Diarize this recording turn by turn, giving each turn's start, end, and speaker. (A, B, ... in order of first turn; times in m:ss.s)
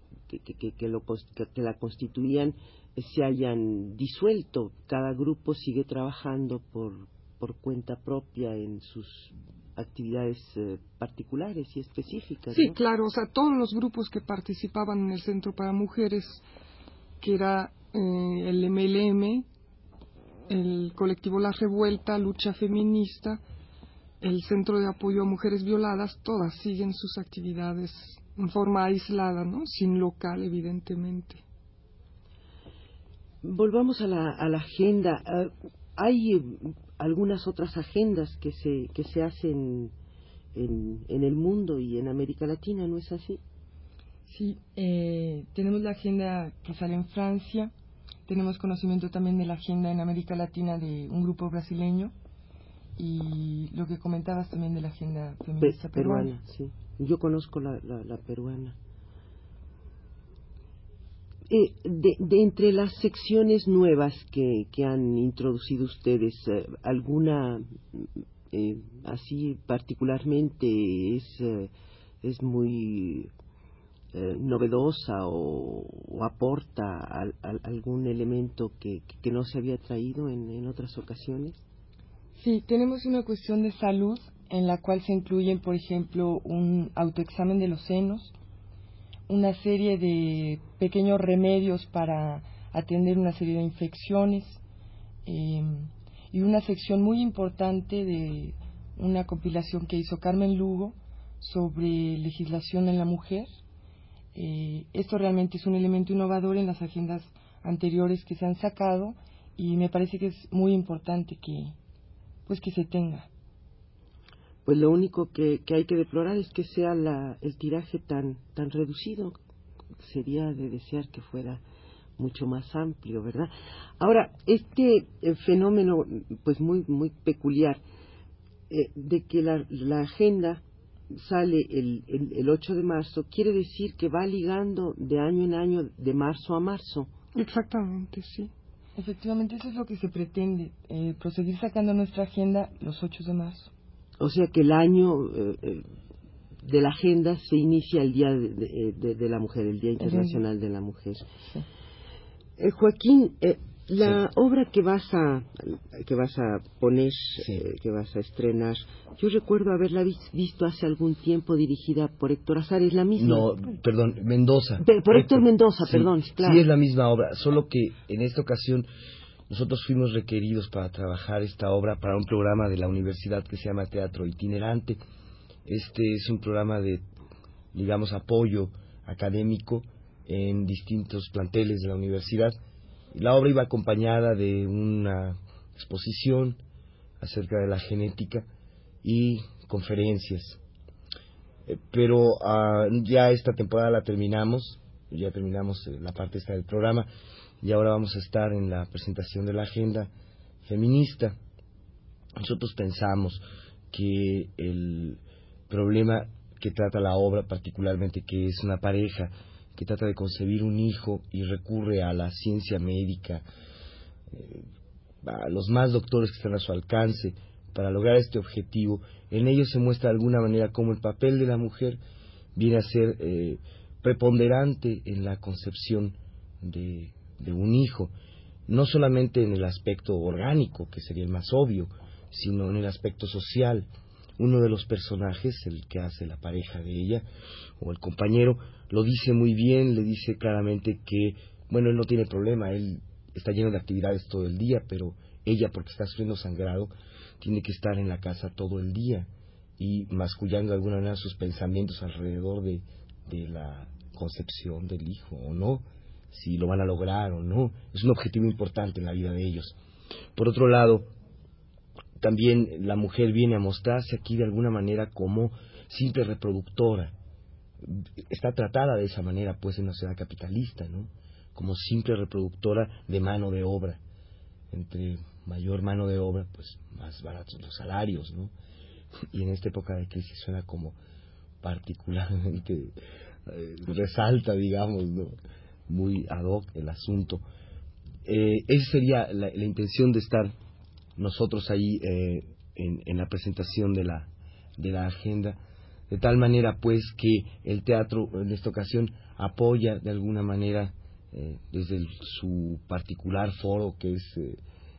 0:00.3-0:12.8 A
0:12.5-0:16.4 B
0:17.2-0:19.5 B
0:20.5-0:23.4 B
0:24.2-0:31.4 B
0:33.4-0:39.9 A
0:40.6-0:43.4 A
0:44.3-0:47.7 C
0:48.3-0:52.1 C
0:53.0-0:56.3 C
0:55.6-0:58.8 A
1:01.5-1:11.7 A
1:12.2-1:13.3 A
1:14.1-1:21.6 A
1:22.4-1:28.3 C
1:29.3-1:34.6 C
1:35.3-1:43.5 C
1:44.4-1:51.8 C
1:52.5-1:53.3 C
1:54.7-1:59.4 A
2:00.0-2:01.6 A
2:02.2-2:07.8 A
2:08.7-2:17.1 A
2:17.3-2:18.5 B
2:19.0-2:23.7 C
2:24.2-2:25.8 A
2:26.6-2:31.3 A
2:30.0-2:30.4 C
2:32.6-2:43.5 A
2:37.4-2:37.7 D
2:43.2-2:48.9 D
2:44.8-2:46.6 A
2:49.5-2:55.0 D
2:55.7-2:57.0 D
2:57.7-3:02.6 D
3:03.1-3:06.6 D
3:07.2-3:08.5 D
3:09.0-3:10.6 D
3:11.7-3:17.1 D
3:17.6-3:20.1 D
3:20.6-3:21.4 D
3:22.4-3:33.4 D
3:34.3-3:34.7 D
3:35.2-3:42.0 D
3:42.6-3:48.1 D
3:48.7-3:57.3 D
3:57.8-4:19.8 D
4:20.4-4:21.1 D
4:22.2-4:27.2 D
4:27.8-4:34.0 D
4:34.7-4:38.5 D
4:39.3-4:41.0 D
4:41.6-4:43.0 D
4:43.5-4:45.4 D
4:45.9-4:47.4 D
4:48.2-4:50.6 D
4:51.2-4:55.6 D
4:56.1-5:04.6 D